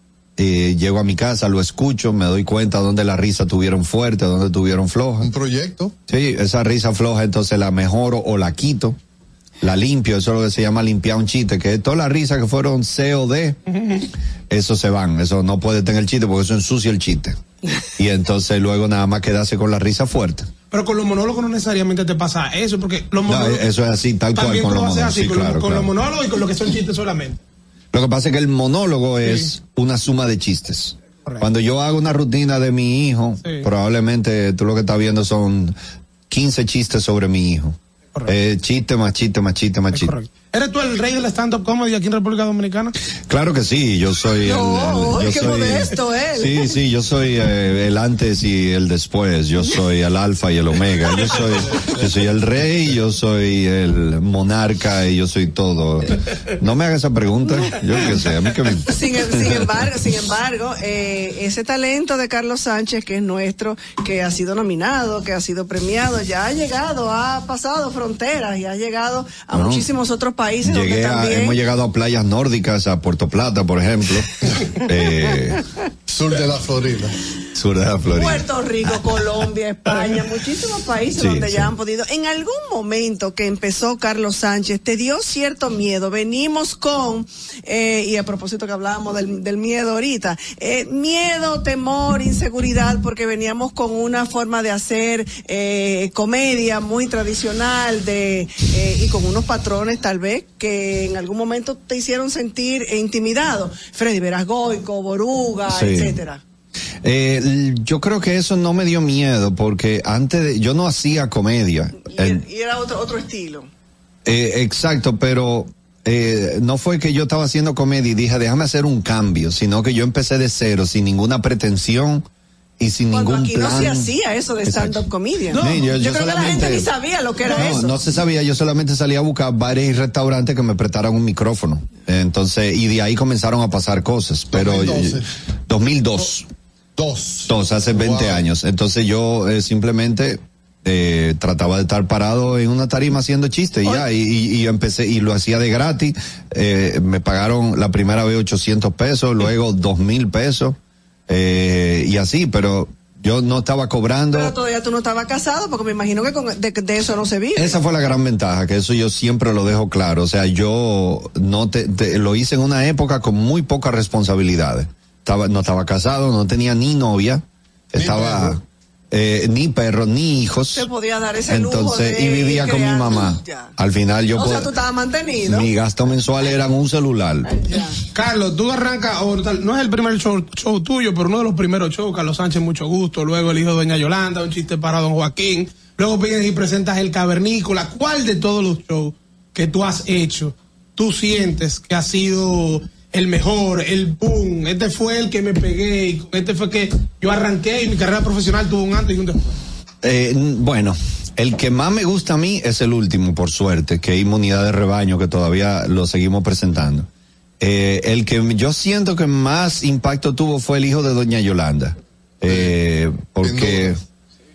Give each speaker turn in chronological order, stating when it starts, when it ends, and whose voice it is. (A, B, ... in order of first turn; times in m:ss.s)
0:00.4-0:05.3 A
0:05.2-0:05.9 B
0:06.1-0:09.0 A
0:09.6-0:13.6 A
0:13.7-0:14.1 C
0:14.5-0:17.4 A
0:18.0-0:20.5 A
0:20.7-0:23.7 C
0:23.3-0:25.9 A
0:24.4-0:27.4 C
0:27.9-0:35.8 A
0:29.2-0:29.5 C
0:33.4-0:33.7 C
0:36.3-0:37.8 A
0:38.3-0:40.2 A
0:39.9-0:42.9 C
0:43.3-0:59.8 A
0:44.4-0:46.8 D
0:58.9-1:11.6 D
1:09.5-1:09.9 A
1:10.6-1:14.3 A
1:14.8-1:15.6 A
1:16.1-1:17.1 B
1:17.6-1:19.5 A
1:18.1-1:46.4 D
1:21.2-1:21.7 A
1:45.7-1:46.2 A
1:47.0-1:52.4 A
1:52.0-1:53.7 D
1:54.3-2:02.2 A
2:02.8-2:04.1 A
2:03.1-2:08.0 D
2:04.6-2:06.9 A
2:05.6-2:05.8 C
2:07.4-2:16.5 A
2:14.5-2:15.2 B
2:17.0-2:18.4 B
2:17.5-2:30.8 A
2:31.3-2:34.6 A
2:34.3-2:37.8 D
2:37.6-2:50.9 A
2:48.0-2:48.6 B
2:50.7-2:53.7 D
2:51.5-2:54.7 A
2:54.3-2:55.7 D
2:55.4-2:57.5 A
2:57.4-2:58.0 D
2:58.2-3:19.5 C
3:20.0-3:27.1 A
3:27.6-3:34.0 A
3:32.5-3:32.7 B
3:33.4-3:33.9 B